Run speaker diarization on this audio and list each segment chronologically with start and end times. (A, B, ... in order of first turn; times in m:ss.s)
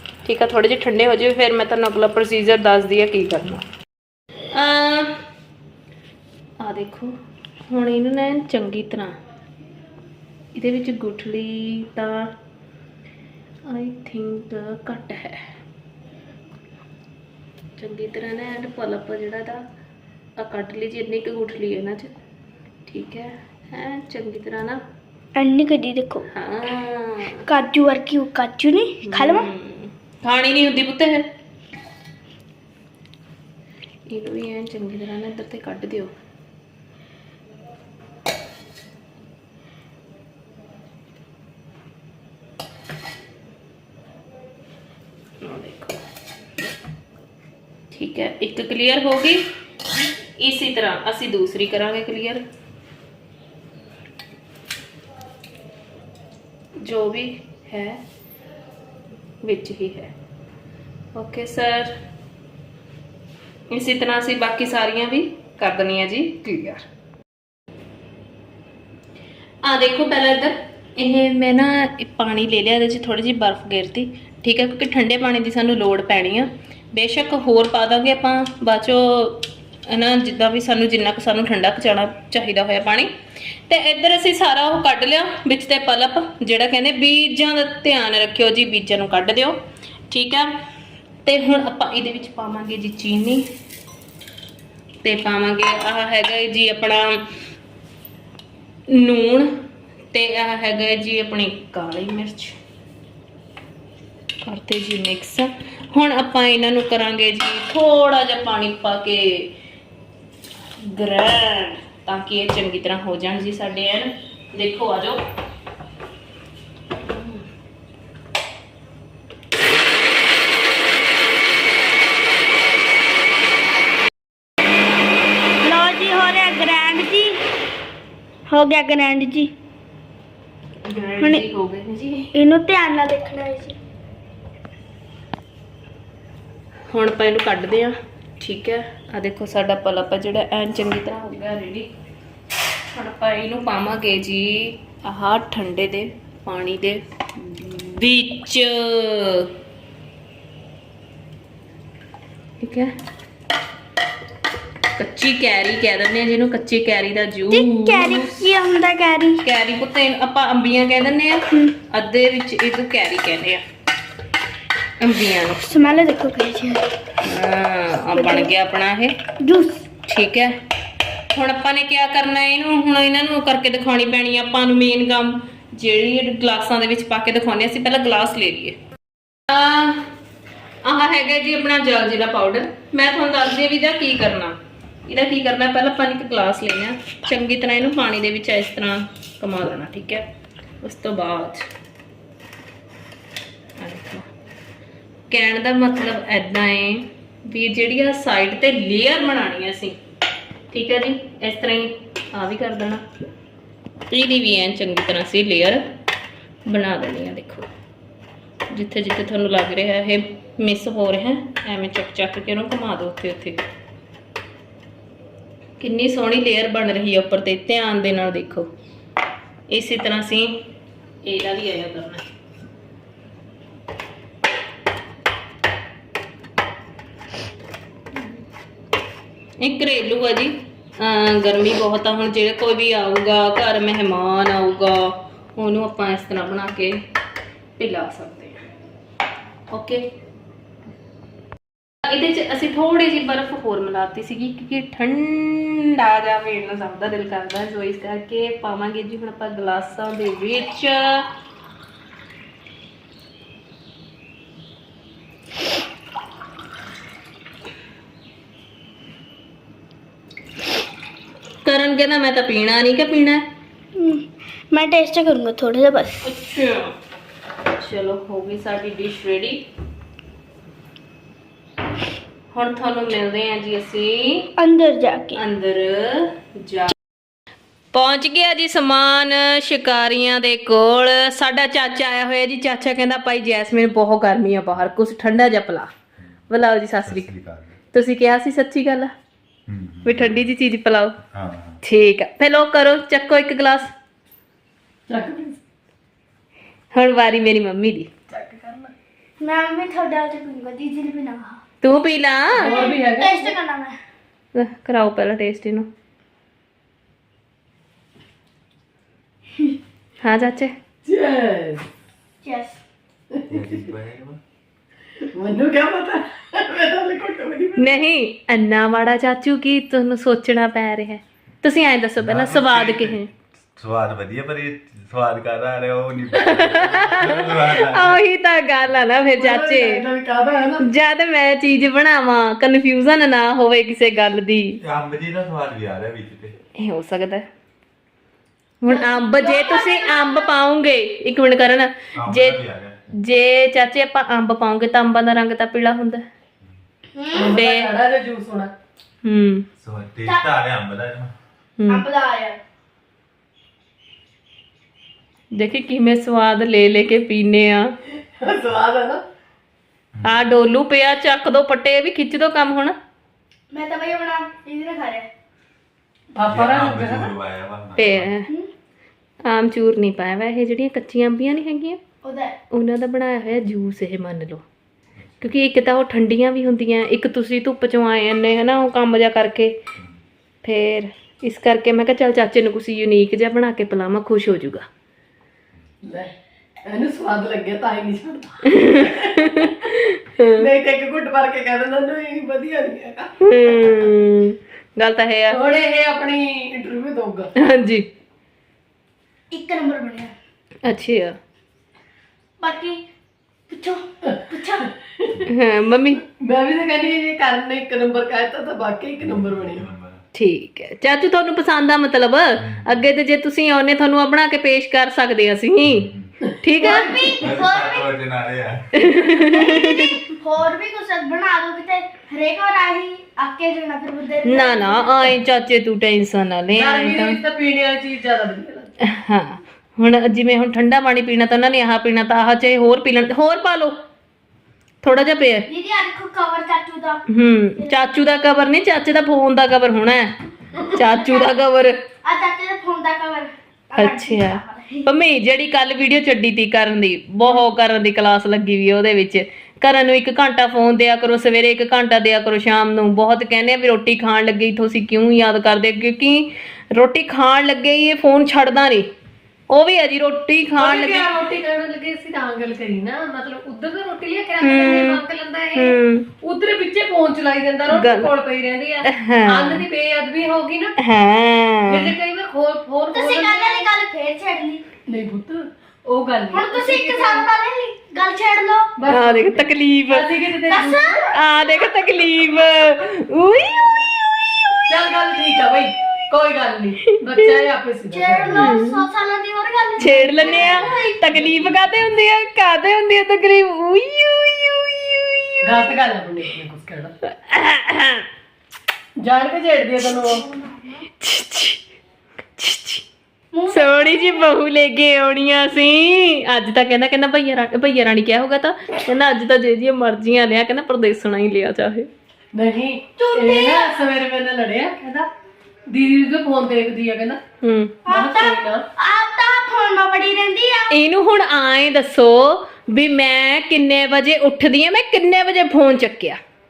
0:00.2-0:03.6 A
0:04.5-0:05.1 A
0:06.6-0:07.1 A
0:07.7-0:09.1 A
0:10.5-0:12.3 A
0:13.7-0:15.4 A
0:17.8-0:19.6 A
0:20.4-0:22.1 A
0:22.9-0:24.8 A
0:25.3-0:26.2 B
0:26.3-0:27.4 A
0:27.4-0:29.5 B
0:29.0-0:31.3 A
0:34.1-0:36.1 A
0:45.4-0:46.0 A
0:47.9-0:49.4 A
0:50.4-0:52.4 A
0:56.8-0:58.0 A
0:59.4-1:00.1 A
1:01.1-1:01.9 A
1:03.7-1:06.8 A
1:09.6-1:23.1 A
1:23.7-1:29.6 A
1:30.1-1:30.5 A
1:31.2-1:33.4 A
1:35.0-1:37.2 A
1:38.9-1:39.5 A
1:40.1-1:42.6 A
1:44.4-1:49.5 A
1:50.8-1:55.2 A
1:57.0-1:57.4 A
2:05.6-2:07.4 B
2:08.5-2:09.5 B
2:10.8-2:12.3 A
2:12.3-2:13.8 B
2:16.9-2:21.9 A
2:22.9-2:29.5 A
2:32.6-2:32.9 A
2:35.0-2:38.5 A
2:37.5-2:39.4 B
2:39.4-2:43.6 A
2:45.0-2:45.6 A
2:45.6-2:46.9 B
2:47.2-2:49.2 A
2:48.1-2:48.5 B
2:49.4-2:49.9 B
2:50.1-2:50.5 A
2:51.3-2:58.8 A
2:59.5-3:00.1 A
3:00.8-3:10.2 A
3:10.8-3:11.6 A
3:13.8-3:14.2 A
3:15.3-3:20.0 A
3:20.7-3:23.0 A
3:24.1-3:25.8 A
3:26.6-3:27.7 A
3:28.7-3:33.6 A
3:35.8-3:38.7 A
3:39.7-3:40.6 A
3:41.2-3:42.2 A
3:49.6-3:57.0 A
3:57.8-3:58.6 A
3:59.7-4:00.0 A
4:02.0-4:11.3 A
4:21.6-4:23.4 A
4:24.0-4:26.2 B
4:26.2-4:26.9 A
4:27.7-4:29.6 A
4:32.5-4:34.5 A
4:34.6-4:35.4 B
4:35.3-4:37.0 A
4:37.9-4:45.9 A
4:46.5-4:47.3 A
4:47.0-4:47.8 C
4:47.9-4:49.1 A
4:49.7-4:50.5 C
4:50.0-4:51.2 A
4:51.3-4:51.8 C
4:51.8-4:53.9 A
4:55.1-4:55.6 D
4:56.9-4:58.1 A
4:58.3-4:58.9 D
4:59.4-5:01.6 B
5:01.8-5:02.7 A
5:02.6-5:03.6 D
5:02.6-5:04.0 B
5:04.5-5:05.9 A
5:10.2-5:10.7 A
5:11.0-5:11.8 D
5:12.4-5:12.8 B
5:13.3-5:13.8 D
5:13.5-5:14.4 C
5:15.3-5:17.9 D
5:17.8-5:23.3 A
5:22.2-5:23.2 C
5:23.8-5:28.2 C
5:26.3-5:30.0 A
5:29.4-5:30.8 D
5:30.8-5:34.8 A
5:34.8-5:36.5 C
5:36.8-5:37.4 A
5:38.8-5:42.6 A
5:38.9-5:40.5 B
5:42.2-5:42.9 C
5:43.2-5:46.2 A
5:47.1-5:47.5 B
5:47.3-5:48.7 D
5:47.5-5:47.9 A
5:49.2-5:49.6 A
5:49.8-5:51.3 C
5:50.2-5:50.5 B
5:51.8-5:52.0 A
5:51.9-5:52.6 B
5:55.5-5:57.9 A
5:58.1-5:59.2 D
6:00.2-6:02.9 A
6:03.7-6:05.3 B
6:06.3-6:07.3 D
6:06.5-6:08.3 C
6:08.0-6:08.5 A
6:09.4-6:12.0 A
6:12.2-6:12.6 B
6:12.7-6:14.6 A
6:15.4-6:19.8 A
6:20.6-6:24.8 A
6:26.0-6:29.8 D
6:28.7-6:30.6 A
6:30.6-6:33.3 D
6:33.4-6:35.6 A
6:35.5-6:37.5 D
6:37.6-6:38.0 A
6:39.5-6:40.3 B
6:40.8-6:41.4 A
6:42.6-6:43.0 B
6:43.7-6:44.9 B
6:44.2-6:45.4 D
6:45.4-6:46.2 A
6:46.3-6:49.8 D
6:49.2-6:50.2 C
6:50.3-6:56.1 A
6:52.6-6:52.9 C
6:55.8-6:56.3 C
6:56.6-6:57.2 A
6:56.8-6:57.4 D
6:56.8-6:58.1 B
6:57.4-6:58.8 C
6:58.9-7:00.2 A
6:59.5-7:05.3 B
7:04.4-7:07.4 A
7:06.7-7:08.9 D
7:09.0-7:13.9 A
7:15.0-7:15.7 A
7:15.7-7:17.2 B
7:17.3-7:20.3 A
7:20.8-7:22.0 A
7:20.9-7:21.5 B
7:22.2-7:25.1 B
7:24.0-7:39.0 A
7:39.7-7:41.3 A
7:40.8-7:50.9 D
7:44.6-7:45.2 A
7:45.8-7:46.3 A
7:47.9-7:48.3 A
7:49.0-7:49.8 A
7:51.0-7:52.1 A
7:51.9-7:53.9 D
7:53.1-7:54.9 B
7:55.0-7:57.5 D
7:56.5-7:58.9 B
7:59.0-8:01.3 D
7:59.1-8:00.2 A
8:00.7-8:02.9 B
8:01.3-8:03.8 A
8:04.9-8:08.7 D
8:08.1-8:11.1 B
8:08.5-8:09.0 A
8:10.0-8:15.6 A
8:10.6-8:11.8 D
8:15.6-8:17.1 D
8:17.4-8:18.2 A
8:19.2-8:20.4 D
8:20.0-8:21.0 B
8:21.2-8:21.8 A
8:22.6-8:23.0 A
8:23.5-8:24.5 B
8:23.7-8:32.1 A
8:32.5-8:35.3 D
8:33.2-8:34.0 B
8:35.9-8:37.4 D
8:37.6-8:38.0 A
8:38.0-8:40.9 B
8:38.0-8:38.8 D
8:40.9-8:46.4 A